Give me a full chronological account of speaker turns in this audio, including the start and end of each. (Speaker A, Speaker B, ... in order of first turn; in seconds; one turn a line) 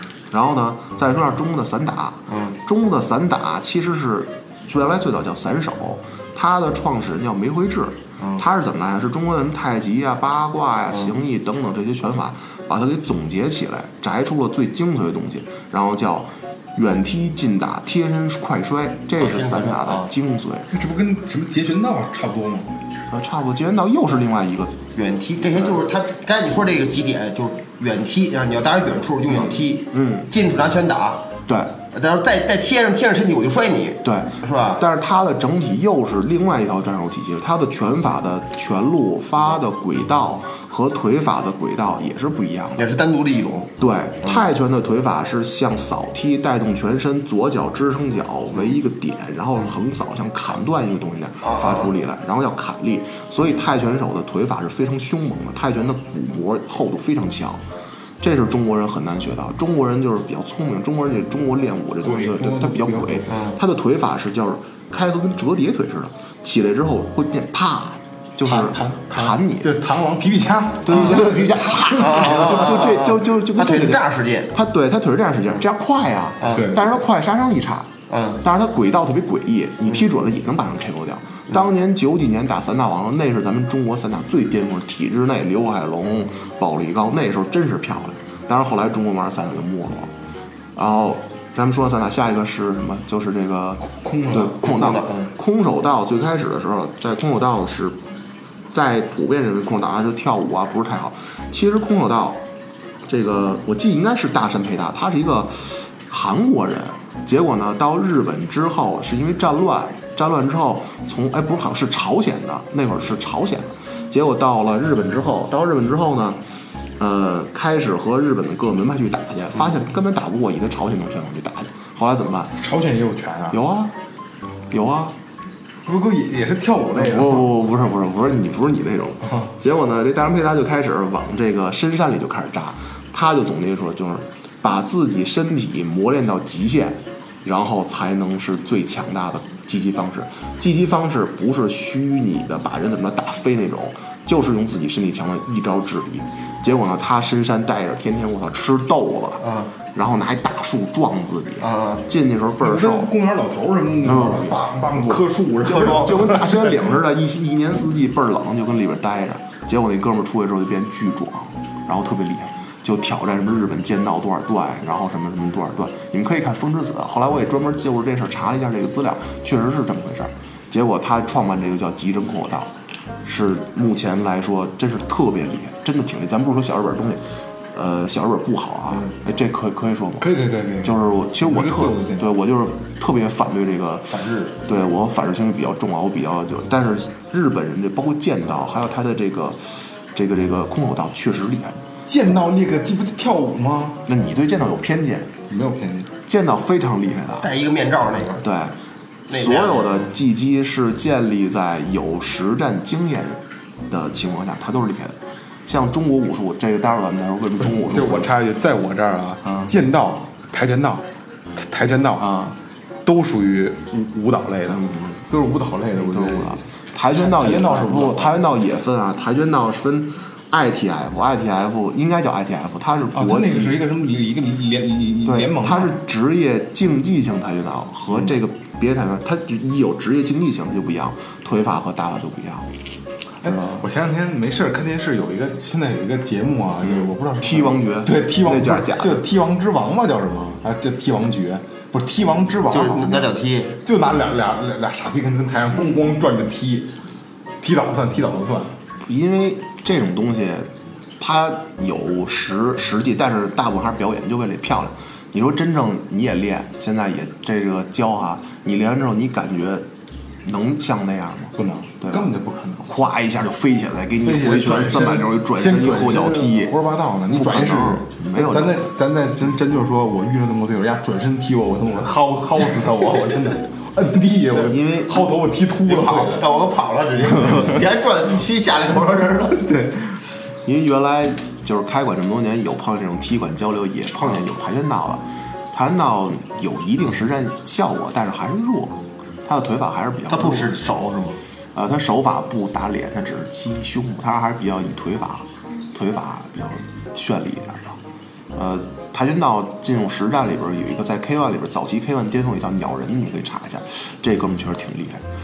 Speaker A: 0.3-20.7
Speaker B: 2.3-2.6
Speaker B: 8.2-8.5
Speaker B: 19.2-20.1
Speaker C: 20.7-22.8
Speaker A: 23.1-24.8
Speaker B: 24.9-31.2
Speaker A: 29.5-30.3
Speaker A: 31.5-31.8
Speaker B: 31.9-34.8
Speaker A: 34.0-42.9
Speaker B: 42.8-43.7
Speaker A: 43.8-57.6
Speaker B: 51.4-51.9
Speaker A: 58.2-69.7
Speaker C: 62.0-63.3
Speaker B: 63.3-63.6
Speaker C: 68.4-72.5
Speaker A: 70.8-77.9
Speaker B: 70.9-71.2
Speaker B: 71.9-74.5
Speaker B: 76.4-76.7
Speaker C: 76.5-77.0
Speaker B: 78.1-78.4
Speaker A: 78.4-90.1
Speaker A: 90.8-98.0
Speaker C: 93.9-94.6
Speaker B: 94.6-95.3
Speaker A: 98.7-102.4
Speaker A: 103.0-116.4
Speaker A: 117.0-122.6
Speaker C: 122.5-123.6
Speaker A: 123.5-123.9
Speaker A: 124.7-125.1
Speaker C: 125.9-127.5
Speaker A: 126.9-149.4
Speaker B: 149.4-149.7
Speaker A: 149.9-153.1
Speaker B: 151.6-152.0
Speaker C: 152.6-156.9
Speaker A: 154.0-172.7
Speaker A: 173.2-191.8
Speaker C: 180.2-182.3
Speaker C: 184.1-184.5
Speaker C: 192.1-194.0
Speaker A: 194.1-195.3
Speaker C: 195.5-196.1
Speaker A: 196.2-197.5
Speaker B: 197.4-198.4
Speaker A: 198.4-198.8
Speaker A: 199.3-208.3
Speaker B: 199.3-200.1
Speaker C: 207.6-212.4
Speaker A: 212.2-212.6
Speaker C: 213.0-216.6
Speaker A: 214.7-215.2
Speaker A: 216.0-223.8
Speaker C: 217.1-218.4
Speaker C: 223.1-226.0
Speaker A: 225.2-232.7
Speaker C: 233.4-243.3
Speaker A: 233.4-233.8
Speaker A: 236.9-239.2
Speaker B: 242.7-243.8
Speaker C: 243.8-246.9
Speaker C: 247.6-248.8
Speaker A: 249.0-250.7
Speaker A: 251.2-259.9
Speaker A: 260.4-262.3
Speaker C: 261.6-262.9
Speaker A: 262.9-266.8
Speaker C: 264.2-276.5
Speaker A: 267.3-268.9
Speaker A: 274.7-275.3
Speaker B: 275.9-279.7
Speaker C: 279.6-280.2
Speaker A: 280.6-290.8
Speaker B: 290.3-291.4
Speaker A: 291.7-298.0
Speaker A: 298.5-305.2